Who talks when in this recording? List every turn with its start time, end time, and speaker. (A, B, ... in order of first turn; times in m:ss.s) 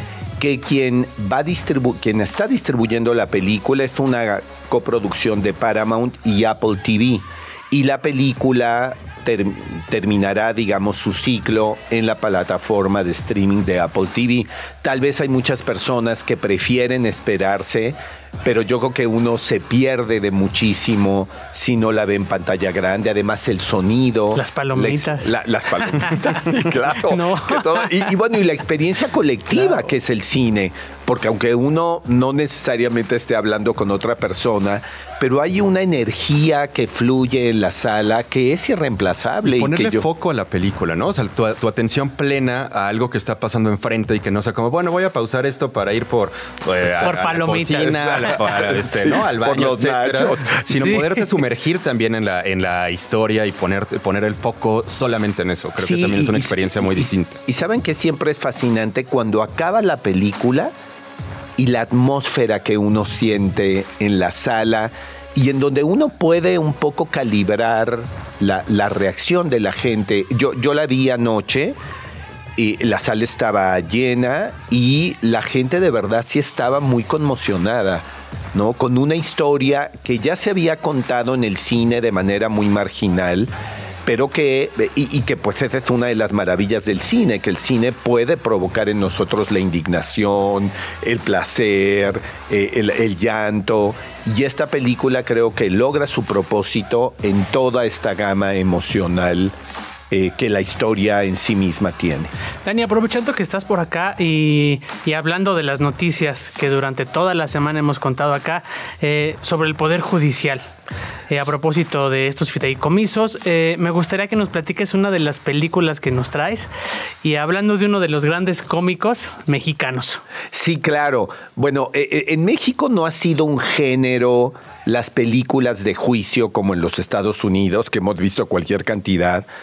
0:00.4-0:40.1 A
0:24.4-0:25.3 B
0:25.8-0:26.4 B
0:27.0-0:28.0 B
0:39.5-0:57.4 C
0:47.0-0:48.4 B
0:48.0-0:50.9 A
0:50.7-0:51.1 B
0:55.8-1:00.7 A
1:01.6-1:11.8 A
1:12.6-1:23.5 A
1:24.0-1:39.5 A
1:40.1-1:42.3 A
1:42.6-1:50.6 B
1:51.3-1:56.7 B
1:57.2-2:00.2 B
2:00.5-2:09.5 A